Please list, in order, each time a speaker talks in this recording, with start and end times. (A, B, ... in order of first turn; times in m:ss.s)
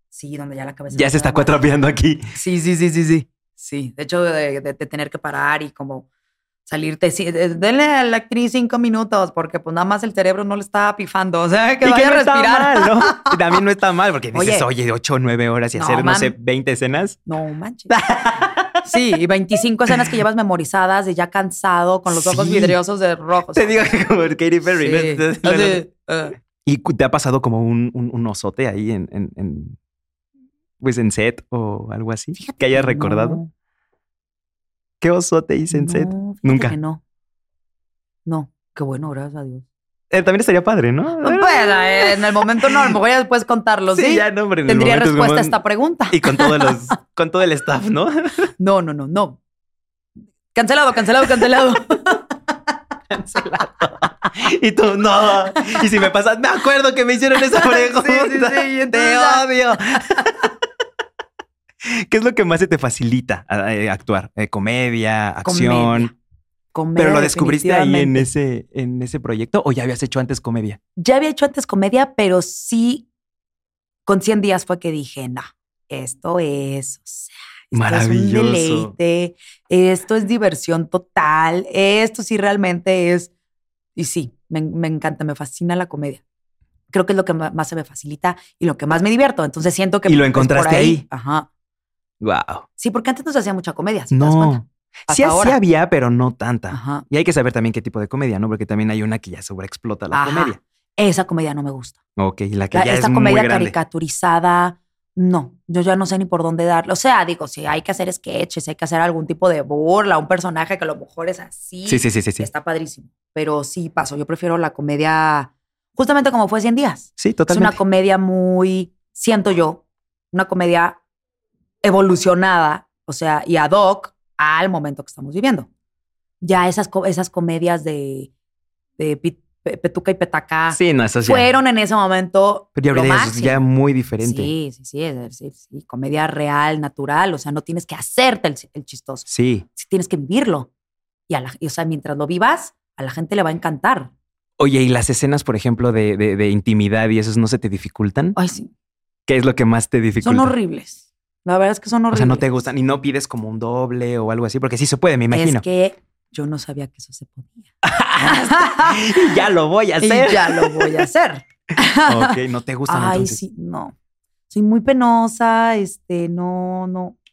0:00.1-0:01.6 A
0:00.9-0:02.3 B
0:02.3-0:06.0 A
0:06.7-0:13.6 A
0:11.8-0:17.2 B
0:14.3-0:14.7 A
0:15.8-0:16.3 A
0:17.3-0:17.9 A
0:17.9-0:18.9 B
0:18.8-0:23.9 A
0:22.1-0:22.8 B
0:23.5-0:25.9 B
0:24.7-0:26.4 A
0:26.6-0:29.8 B
0:30.8-0:33.4 B
0:32.4-0:33.5 A
0:35.0-0:36.8 B
0:35.7-0:37.0 A
0:38.2-0:39.6 A
0:40.1-0:42.9 B
0:41.2-0:46.8 A
0:43.9-0:45.6 B
0:46.1-0:48.5 B
0:48.6-0:49.4 A
0:50.5-0:54.0 A
0:53.1-1:00.5 B
0:55.5-0:55.8 A
0:57.4-0:59.4 A
1:01.8-1:06.1 B
1:05.4-1:06.1 A
1:06.7-1:08.3 A
1:07.0-1:10.8 B
1:11.0-1:13.1 A
1:14.0-1:23.3 A
1:17.7-1:18.9 B
1:24.0-1:26.2 A
1:26.9-1:31.5 A
1:30.0-1:31.0 B
1:32.2-1:32.6 B
1:32.8-1:35.6 A
1:34.1-1:40.6 B
1:36.7-1:37.0 A
1:40.1-1:42.0 A
1:42.2-1:43.7 B
1:42.7-2:01.0 A
1:51.8-1:52.5 B
1:57.2-1:57.8 B
2:01.8-2:05.7 A
2:06.4-2:08.3 A
2:09.0-2:13.6 A
2:10.7-2:11.5 B
2:12.8-2:14.5 B
2:14.2-2:20.7 A
2:19.3-2:19.6 B
2:21.3-2:24.1 A
2:24.6-2:28.4 B
2:28.3-2:28.7 A
2:29.3-2:30.5 B
2:30.2-2:32.4 A
2:32.1-2:35.6 B
2:35.3-2:37.7 A
2:37.8-2:41.0 B
2:38.2-2:39.4 A
2:40.0-2:43.9 A
2:42.0-2:43.4 B
2:44.5-2:47.2 A